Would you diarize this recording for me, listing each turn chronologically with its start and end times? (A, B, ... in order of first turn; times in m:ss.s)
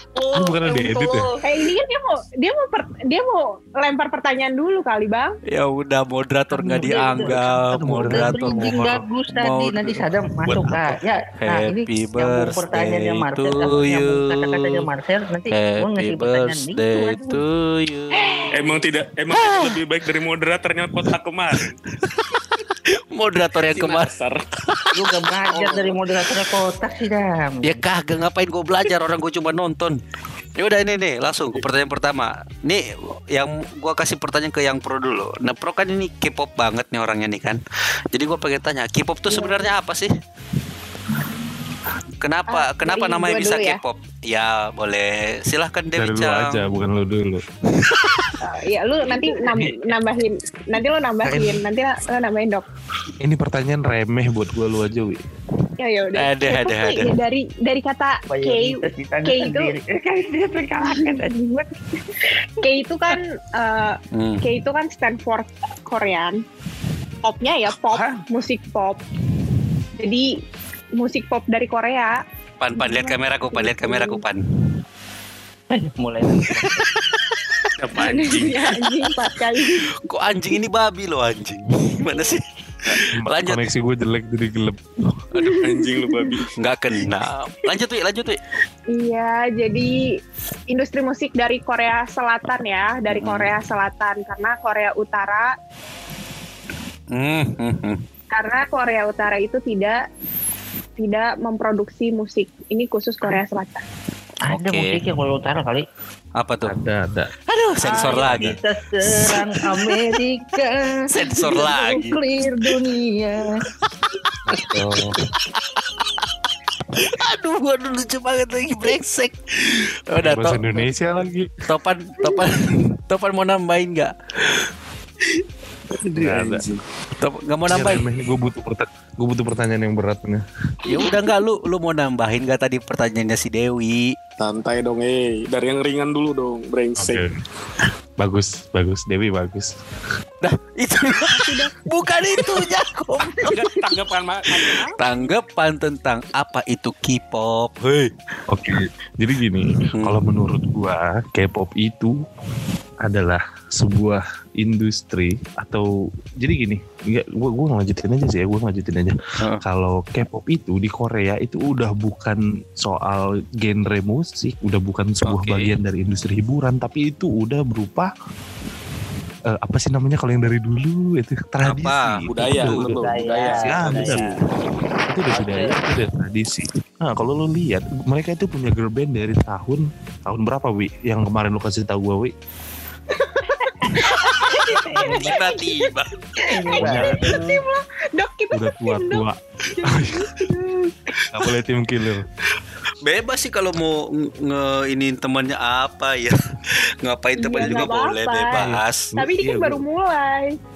0:00.3-0:01.3 A
0:00.8-0:05.4 B
0:05.5-0:10.1 C
0:06.6-0:07.4 D
0:06.8-0:09.0 A
0:07.9-0:17.4 D
0:10.5-0:11.0 A
0:11.4-0:14.9 C
0:15.5-0:18.5 C
0:18.5-0:21.8 E
0:19.4-0:19.8 C
0:21.0-0:25.2 C
0:23.6-0:24.4 E
0:24.9-0:27.8 D
0:25.5-0:25.9 E
0:27.6-0:30.0 C
0:30.6-0:37.6 C
0:38.1-0:40.1 C
0:39.3-0:39.7 B
0:42.2-0:46.6 C
0:42.5-0:43.8 B
0:46.0-0:47.4 A
0:47.8-0:48.4 C
0:48.4-0:52.6 B
0:49.5-0:49.9 A
0:51.2-0:51.6 A
0:53.2-0:55.2 A
0:55.8-0:59.7 B
0:56.2-0:57.2 C
0:58.3-1:01.7 D
1:00.8-1:01.2 B
1:02.6-1:06.4 B
1:04.1-1:04.4 C
1:07.2-1:09.0 B
1:07.9-1:08.2 E
1:10.0-1:10.3 B
1:11.0-1:12.2 B
1:12.6-1:14.4 C
1:12.8-1:14.2 B
1:15.7-1:16.8 D
1:16.4-1:19.1 C
1:17.8-1:18.7 E
1:18.0-1:19.8 B
1:19.7-1:23.6 C
1:22.9-1:24.8 A
1:25.4-1:25.6 C
1:25.4-1:26.4 B
1:25.5-1:26.5 E
1:26.6-1:28.4 C
1:28.9-1:30.1 B
1:30.7-1:35.5 B
1:33.1-1:33.5 C
1:37.1-1:38.0 C
1:38.3-1:40.0 B
1:41.0-1:43.8 B
1:44.4-1:45.9 D
1:44.5-1:45.0 C
1:46.4-1:46.8 C
1:46.6-1:47.3 A
1:47.5-1:50.1 C
1:47.8-1:53.6 D
1:48.0-1:48.6 A
1:51.1-1:52.2 C
1:54.5-1:55.2 A
1:55.2-1:56.2 C
1:56.9-2:00.7 C
2:00.2-2:01.5 A
2:01.7-2:04.6 C
2:05.9-2:06.8 E
2:06.2-2:06.6 A
2:07.2-2:08.0 C
2:07.7-2:10.4 A
2:10.9-2:14.2 C
2:10.9-2:11.2 B
2:14.4-2:17.2 E
2:17.0-2:17.3 A
2:18.2-2:19.7 A
2:20.4-2:23.8 C
2:21.5-2:21.7 B
2:23.4-2:25.0 E
2:24.6-2:28.1 C
2:28.5-2:32.2 A
2:29.9-2:30.2 C
2:33.0-2:48.1 A
2:45.2-2:45.7 C
2:49.5-2:53.0 A
2:51.6-2:52.3 C
2:52.3-2:54.4 E
2:52.6-2:54.3 D
2:53.6-2:54.3 A
2:55.1-3:02.3 A
2:55.3-2:55.8 D
3:03.1-3:11.0 B
3:03.9-3:06.8 C
3:04.9-3:05.4 D
3:06.5-3:07.6 D
3:06.8-3:07.5 A
3:08.5-3:10.3 A
3:11.3-3:12.3 A
3:13.0-3:16.4 C
3:17.0-3:19.1 C
3:17.4-3:20.6 B
3:17.6-3:17.9 A
3:18.6-3:19.8 A